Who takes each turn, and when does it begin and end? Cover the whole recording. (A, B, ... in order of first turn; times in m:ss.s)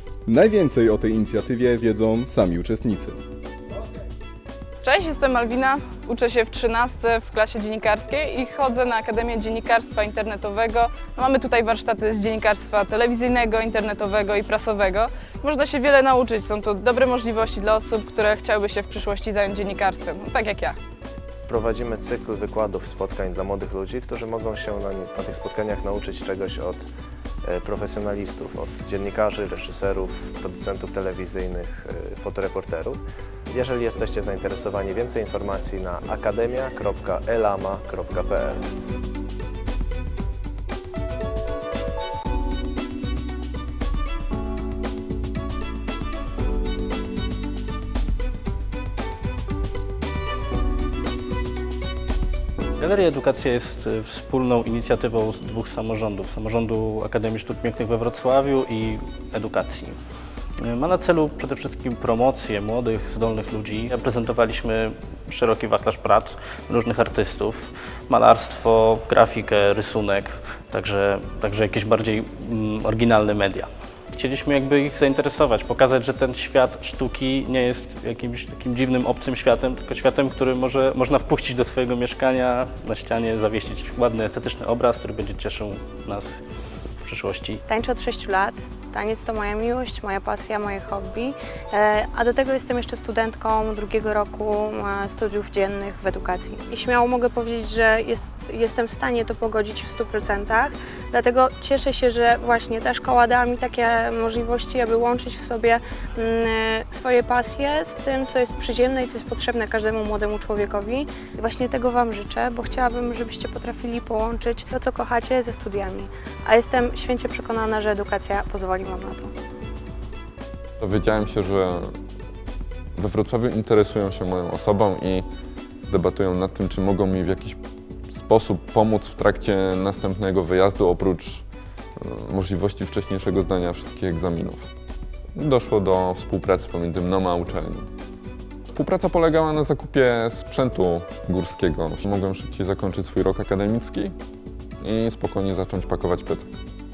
0:00.3-0:03.2 A
0:04.8-0:20.8 B
0:21.5-0:26.9 C
0:27.4-0:38.6 C
0:52.8-1:00.0 D
1:00.6-1:26.4 D
1:27.0-1:27.6 D
1:27.7-1:59.3 E
2:00.8-2:01.9 F
2:03.0-2:05.3 F
2:05.9-2:07.6 F
2:08.1-2:14.7 F
2:15.4-2:17.9 F
2:18.7-2:24.2 F
2:24.8-2:26.5 F